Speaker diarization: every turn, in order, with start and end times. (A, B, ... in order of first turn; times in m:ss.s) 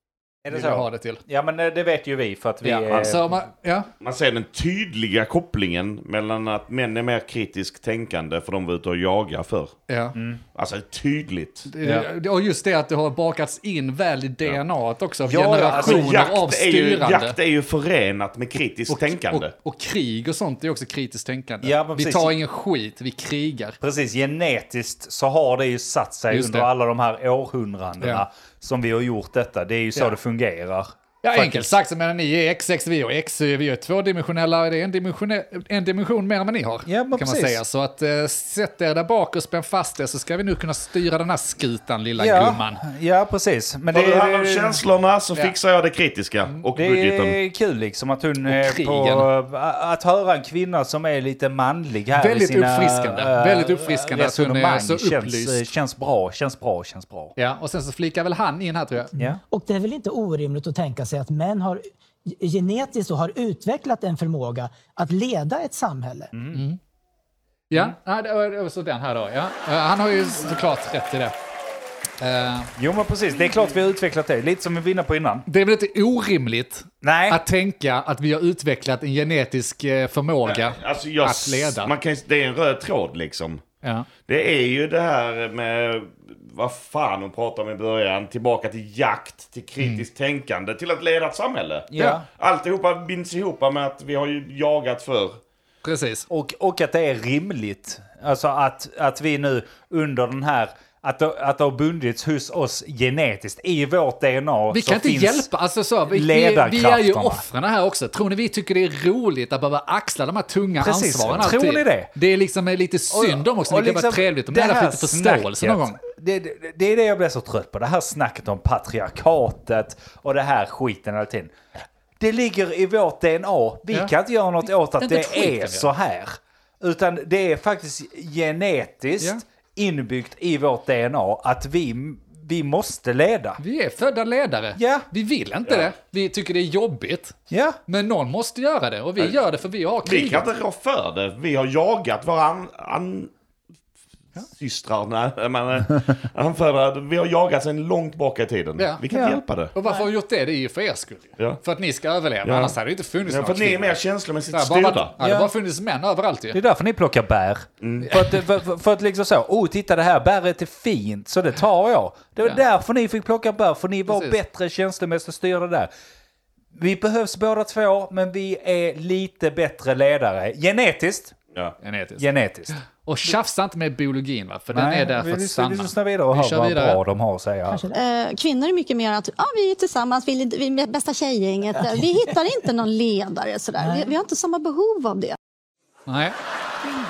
0:00.4-0:03.4 A
0:00.5-0:01.2 B
0:02.6-0:03.9 B
0:04.0-0:09.7 C
0:09.9-0:10.2 B
0:10.2-0:10.4 A
0:10.6-0:11.7 C
0:11.7-0:17.4 B
0:11.8-0:12.1 A
0:15.3-0:16.1 A
0:15.7-0:19.5 C
0:18.9-0:23.8 B
0:21.6-0:22.3 A
0:23.8-0:31.7 A
0:26.3-0:26.7 B
0:31.2-0:42.8 B
0:36.9-0:37.6 A
0:42.2-0:44.8 A
0:43.9-0:47.4 C
0:46.8-0:57.4 A
0:48.4-0:49.3 B
0:52.2-0:55.6 B
0:57.4-0:59.1 B
0:59.2-1:06.3 D
1:06.3-1:06.7 A
1:06.5-1:06.8 B
1:07.7-1:11.4 B
1:12.2-1:12.7 B
1:12.8-1:15.5 A
1:15.5-1:21.9 B
1:17.0-1:17.4 A
1:20.5-1:23.6 C
1:23.8-1:24.1 B
1:24.3-1:35.4 C
1:31.9-1:32.2 A
1:35.8-1:36.3 B
1:36.3-1:45.5 A
1:44.7-1:56.0 B
1:46.1-1:47.4 A
1:50.8-1:52.1 A
1:53.1-2:01.6 A
2:02.2-2:13.6 A
2:05.0-2:05.9 B
2:13.6-2:17.4 B
2:14.8-2:15.1 A
2:17.5-2:17.8 A
2:17.9-2:20.5 B
2:20.0-2:23.3 C
2:24.5-2:29.7 C
2:28.8-2:29.0 B
2:29.1-2:29.4 A
2:29.8-2:34.0 B
2:32.4-2:35.1 C
2:34.5-2:36.6 B
2:35.2-2:35.5 A
2:36.5-2:45.9 A
2:37.8-2:38.1 C
2:44.1-2:44.4 B
2:46.8-2:51.4 A
2:51.8-2:52.3 B
2:52.2-2:52.8 A
2:53.0-2:57.0 B
2:54.7-2:57.8 A
2:57.7-2:58.0 D
2:57.9-3:05.4 E
3:01.8-3:02.1 D
3:03.8-3:04.1 D
3:06.1-3:06.4 B